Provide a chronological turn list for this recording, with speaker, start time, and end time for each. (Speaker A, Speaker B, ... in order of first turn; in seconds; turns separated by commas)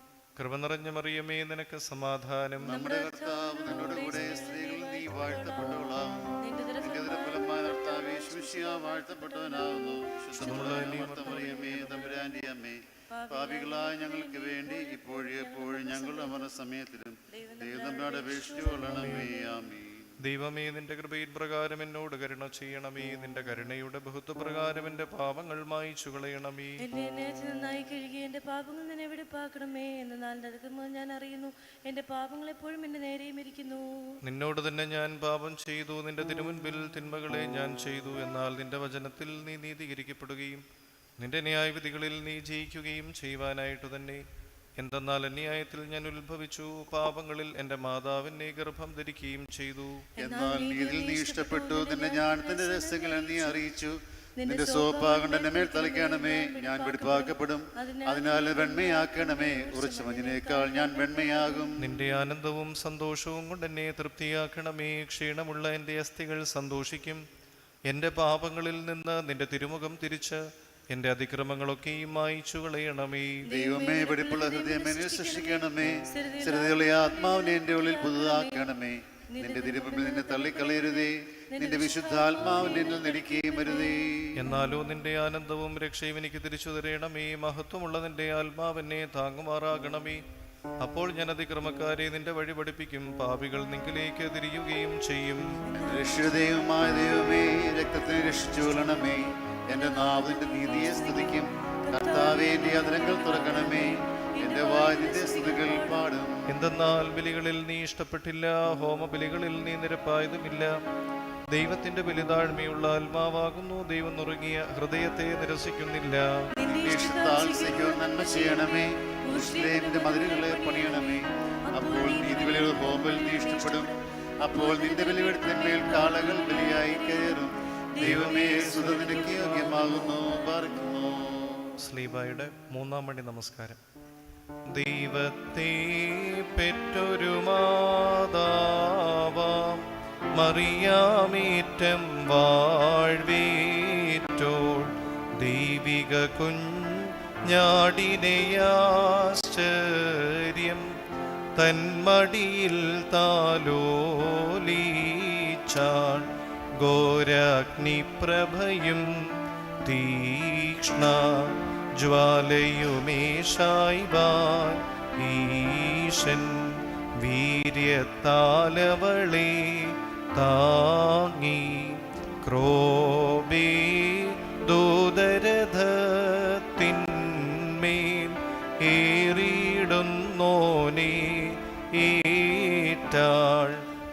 Speaker A: 0.4-2.8, Speaker B: 2.6-20.1, Speaker C: 2.7-12.1, Speaker A: 10.3-12.1, Speaker C: 13.1-16.4, Speaker C: 17.3-19.5, Speaker A: 20.2-26.9, Speaker C: 26.8-34.2, Speaker A: 34.2-40.6, Speaker A: 41.2-44.2, Speaker A: 44.8-50.1, Speaker C: 50.1-53.6, Speaker B: 50.2-61.9, Speaker C: 54.4-61.7, Speaker A: 61.8-67.2, Speaker A: 67.9-73.5, Speaker C: 73.4-78.8, Speaker B: 73.5-84.4, Speaker C: 79.3-84.0, Speaker A: 84.3-90.2, Speaker A: 90.8-95.6, Speaker C: 95.7-96.2, Speaker B: 95.7-106.5, Speaker C: 100.0-106.1, Speaker A: 106.5-110.7, Speaker A: 111.5-116.5, Speaker C: 116.5-118.7, Speaker B: 116.6-131.7, Speaker C: 119.2-124.0, Speaker C: 124.5-127.4, Speaker C: 127.9-130.2, Speaker A: 128.0-129.7, Speaker A: 131.8-133.8, Speaker A: 134.7-150.9, Speaker A: 151.6-183.8